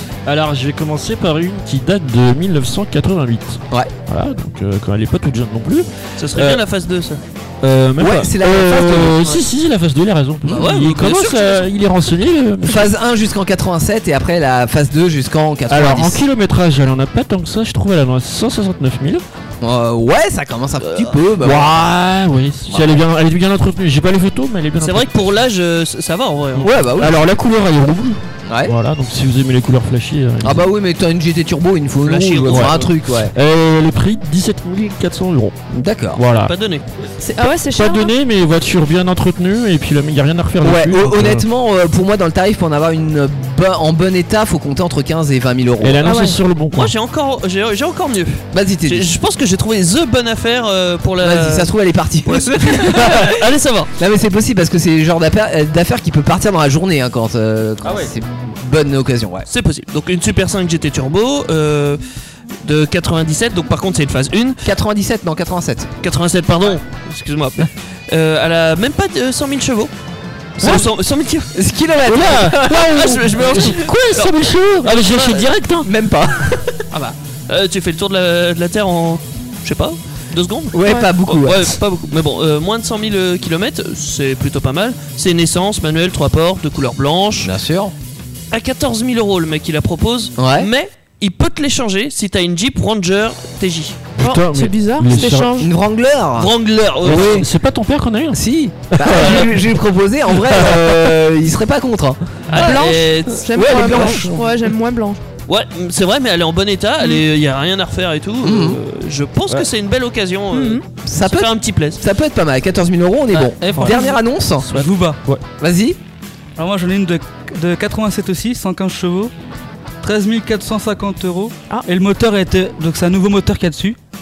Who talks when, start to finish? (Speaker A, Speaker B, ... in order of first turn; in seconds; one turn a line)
Speaker A: 0.2-6.6
Speaker B: 6.2-7.2
Speaker A: 7.6-12.9
Speaker C: 8.0-9.4
Speaker C: 10.4-10.7
Speaker B: 10.5-11.7
Speaker C: 12.6-16.2
Speaker A: 15.7-19.2
Speaker C: 19.6-21.9
Speaker B: 20.8-21.1
Speaker A: 21.4-25.1
Speaker C: 22.7-23.0
Speaker B: 24.8-26.8
Speaker A: 26.6-30.7
Speaker C: 26.6-27.2
Speaker C: 28.5-28.7
Speaker C: 30.4-33.3
Speaker B: 32.0-32.9
Speaker A: 32.5-35.6
Speaker C: 35.7-36.2
Speaker A: 36.1-36.5
Speaker B: 36.4-36.8
Speaker D: 37.2-38.1
Speaker A: 37.8-41.4
Speaker C: 40.6-46.1
Speaker A: 45.8-46.9
Speaker D: 46.0-46.4
Speaker B: 46.7-51.7
Speaker C: 48.5-49.1
Speaker C: 51.2-53.4
Speaker B: 52.2-53.9
Speaker C: 54.0-59.5
Speaker B: 59.5-62.0
Speaker B: 62.6-64.6
Speaker C: 64.6-65.9
Speaker B: 66.0-69.9
Speaker B: 70.6-71.5
Speaker C: 70.6-70.9
Speaker C: 71.5-73.0
Speaker A: 72.1-75.9
Speaker B: 72.4-75.5
Speaker C: 75.8-77.1
Speaker B: 77.5-87.5
Speaker C: 80.7-81.7
Speaker C: 87.4-87.9
Speaker B: 88.5-94.0
Speaker C: 90.4-90.7
Speaker A: 94.2-95.5
Speaker D: 94.2-95.7
Speaker C: 95.6-96.5
Speaker B: 96.4-97.4
Speaker C: 97.0-97.5
Speaker A: 97.0-99.7
Speaker C: 98.3-102.8
Speaker B: 99.1-99.5
Speaker A: 100.3-101.1
Speaker B: 102.5-104.2
Speaker D: 102.5-105.2
Speaker C: 103.5-104.4
Speaker B: 105.5-112.0
Speaker C: 108.4-108.8
Speaker D: 110.5-110.8
Speaker C: 111.0-114.7
Speaker E: 113.3-114.1
Speaker A: 113.6-114.0
Speaker D: 113.9-114.2
Speaker E: 114.7-115.2
Speaker A: 114.7-115.4
Speaker C: 115.6-116.0
Speaker E: 116.6-119.3
Speaker E: 120.0-124.0